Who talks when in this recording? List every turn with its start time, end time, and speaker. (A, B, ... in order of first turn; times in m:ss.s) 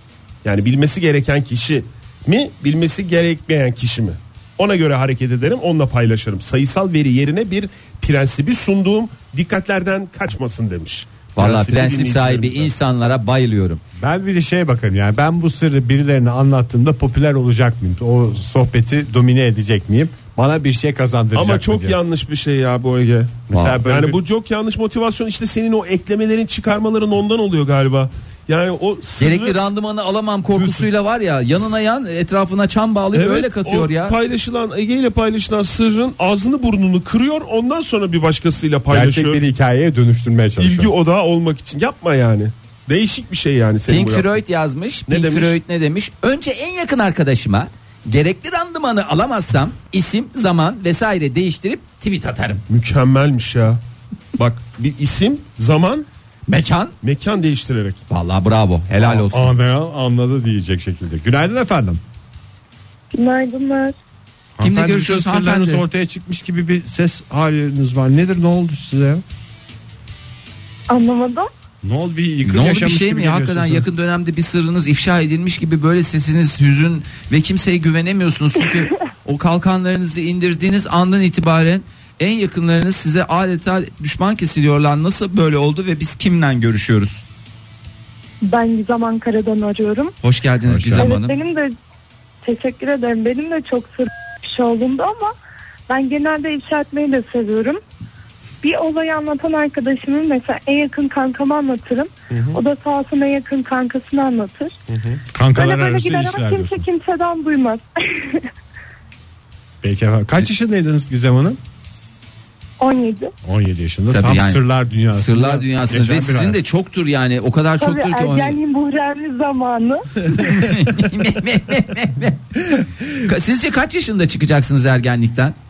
0:00.4-0:12.7 A
0:11.4-0:13.8 B
0:14.0-0:22.0 C
0:21.3-0:29.6 A
0:23.5-0:24.2 C
0:29.2-0:34.1 B
0:30.6-0:30.8 A
0:33.1-0:39.4 A
0:38.9-0:40.9 C
0:40.6-0:44.4 A
0:43.9-0:52.6 B
0:45.1-0:45.6 A
0:52.7-0:53.8 A
0:54.4-0:56.1 A
0:56.5-0:56.9 B
0:57.0-0:58.0 A
0:58.1-0:59.5 B
0:59.0-1:02.0 C
1:03.1-1:04.0 D
1:04.6-1:09.2 C
1:04.6-1:05.8 B
1:10.9-1:11.5 D
1:11.8-1:13.9 C
1:12.4-1:27.2 B
1:28.4-1:30.1 D
1:30.2-1:31.4 B
1:30.7-1:31.1 C
1:30.9-1:31.7 D
1:32.4-1:35.3 D
1:35.9-1:37.8 D
1:38.6-1:44.7 D
1:42.3-1:42.6 A
1:44.9-1:45.2 A
1:45.3-1:46.8 C
1:45.6-1:48.4 D
1:49.8-1:51.6 C
1:52.8-1:53.3 D
1:53.4-1:56.6 C
1:54.1-1:58.6 B
1:57.8-2:00.8 D
2:00.4-2:05.6 B